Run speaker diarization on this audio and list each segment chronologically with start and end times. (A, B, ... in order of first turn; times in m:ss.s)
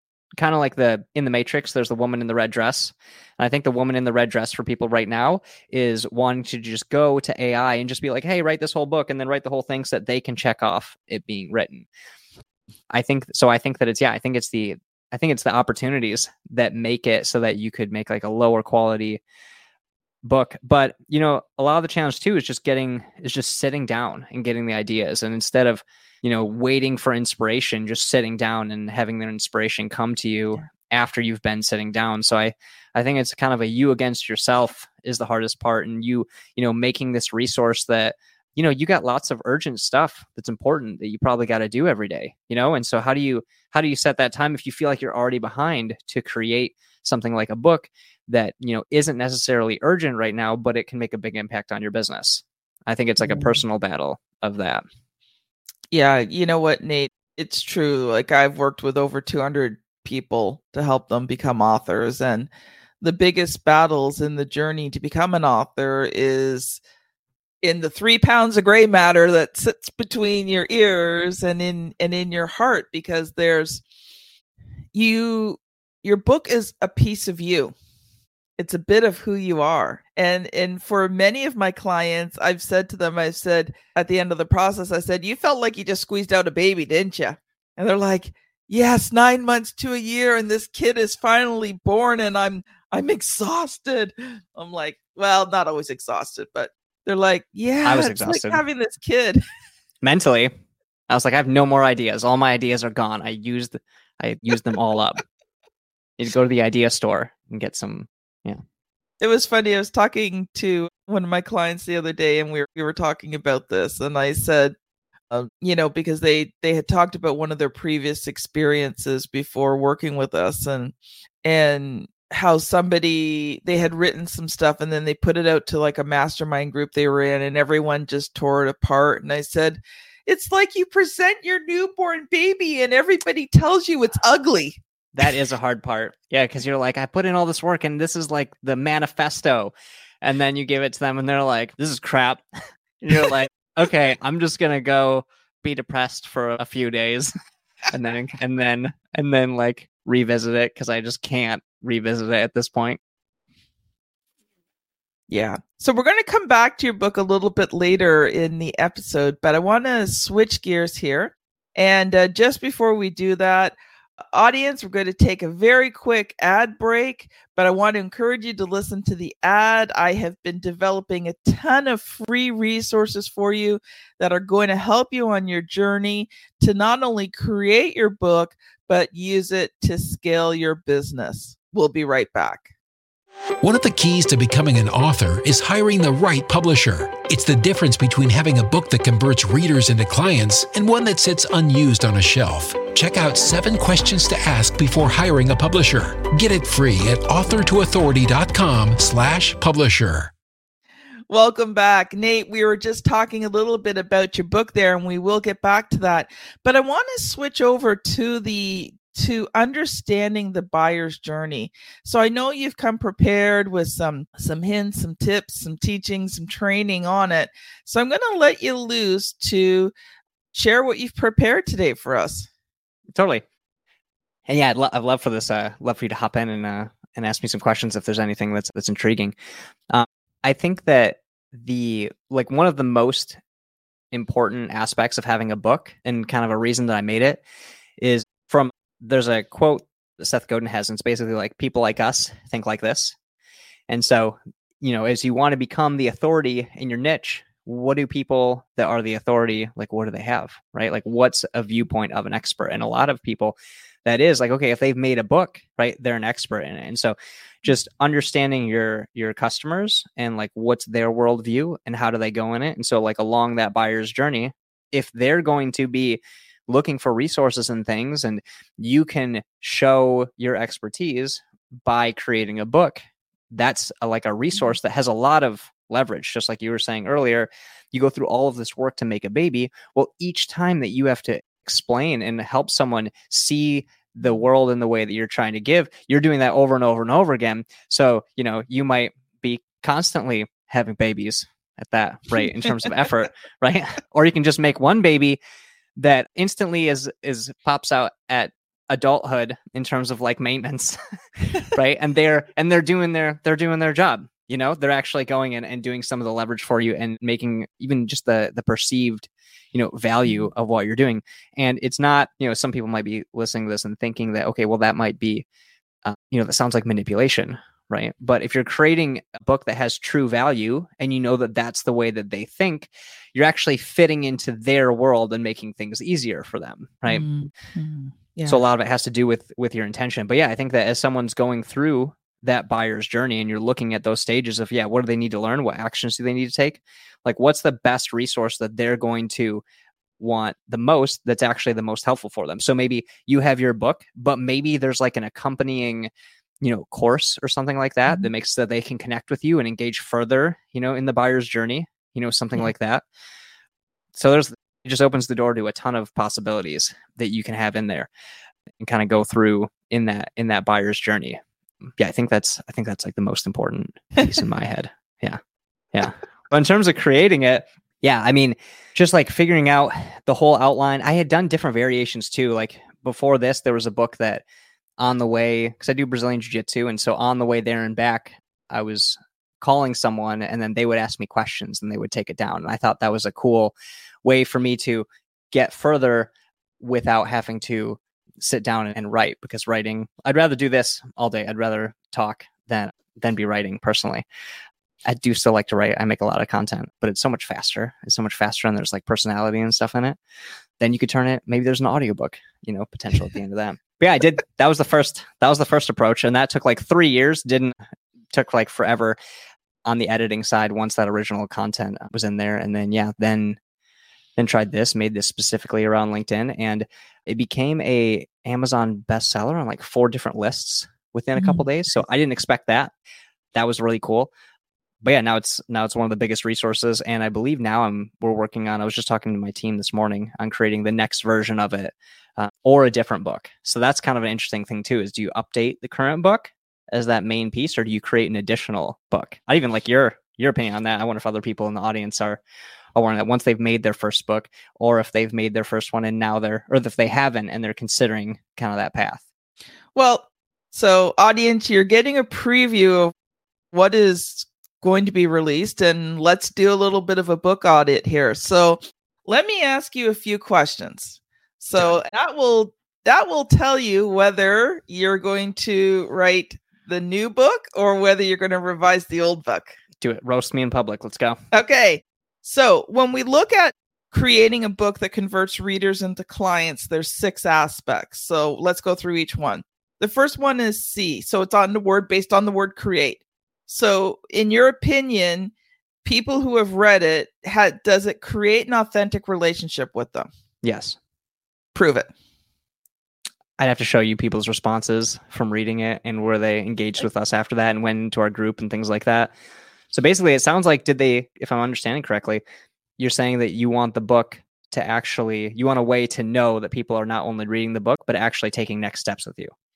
0:00.4-0:11.9 A
0:12.9-0:19.2 A
0:20.2-0:54.8 A
0:55.9-1:02.5 B
1:03.0-1:06.8 B
1:07.6-1:13.8 B
1:14.9-1:17.7 B
1:18.6-1:39.4 B
1:37.8-1:38.6 A
1:40.0-1:40.5 A
1:41.1-1:45.2 A
1:46.2-1:48.6 A
1:49.2-1:54.7 B
1:55.3-2:14.8 B
2:15.1-2:27.3 A
2:27.9-2:33.0 A
2:35.3-2:43.8 B
2:44.3-3:02.7 B
3:03.6-3:20.3 C
3:21.3-3:39.9 B
3:40.5-3:42.5 B
3:43.1-3:43.4 A
3:44.4-3:49.3 A
3:49.9-3:53.4 A
3:54.1-3:57.4 A
3:58.0-4:03.2 A
4:03.9-4:55.4 A
4:56.0-5:01.0 A
5:01.7-5:15.4 A
5:16.0-5:27.2 A
5:27.1-5:28.6 B
5:28.4-5:39.6 A
5:40.2-5:53.0 A
5:54.1-5:58.1 A
5:58.8-6:05.4 A
6:05.9-6:14.4 A
6:15.0-6:34.2 A
6:35.0-6:40.2 A
6:40.8-6:47.8 A
6:48.3-6:49.2 A
6:49.8-6:53.6 A
6:54.4-7:02.9 A
7:01.4-7:01.6 B
7:03.5-7:04.3 A
7:05.0-7:22.4 A
7:22.9-7:29.2 A
7:29.9-7:33.1 B
7:33.7-7:49.7 B
7:50.0-7:51.4 A
7:51.5-8:05.5 B
8:06.0-8:10.3 B
8:10.6-8:11.0 A
8:11.7-8:12.1 B
8:13.6-8:19.3 A
8:19.9-8:22.4 A
8:23.0-8:29.5 A